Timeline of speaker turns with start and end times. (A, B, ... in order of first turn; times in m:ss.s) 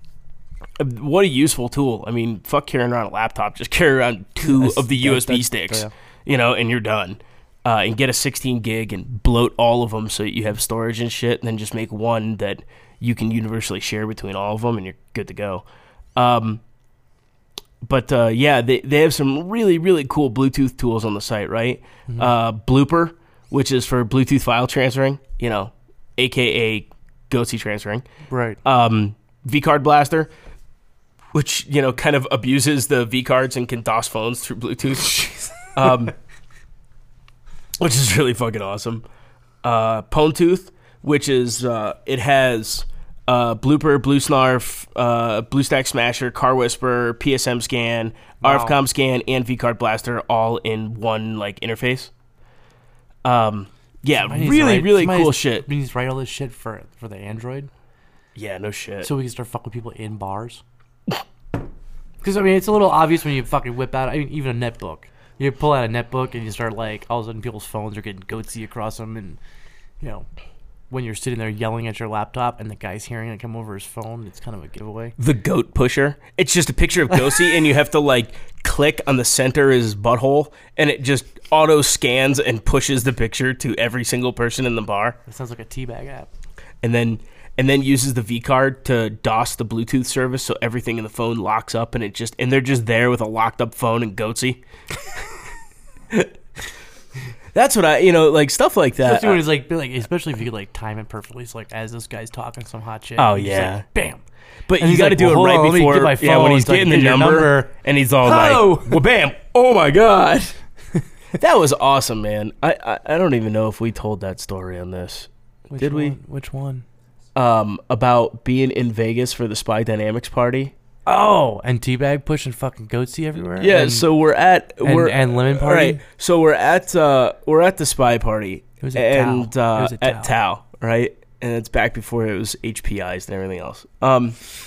0:00.8-0:15.6 A
0:04.4-0:05.9 B
0:16.2-0:16.6 A
0:17.8-0:28.1 A
0:22.1-0:22.3 B
0:28.3-0:28.6 B
0:28.6-0:30.3 A
0:31.3-0:36.1 A
0:37.8-0:39.0 A
0:39.6-0:52.1 A
0:48.4-0:48.8 B
0:53.2-0:55.7 A
0:54.2-0:57.7 B
0:58.4-0:59.1 A
0:59.0-1:00.6 B
1:02.2-1:09.4 B
1:10.9-1:15.2 B
1:15.2-1:25.2 A
1:25.3-1:26.3 B
1:26.8-1:34.6 A
1:37.5-1:39.4 A
1:39.0-1:44.2 B
1:43.2-1:43.9 A
1:44.7-1:50.6 A
1:44.8-1:49.0 B
1:51.3-1:56.2 A
1:55.7-1:56.8 B
1:57.4-2:00.7 A
2:01.1-2:04.1 B
2:03.6-2:14.4 A
2:04.8-2:06.0 B
2:08.8-2:10.4 B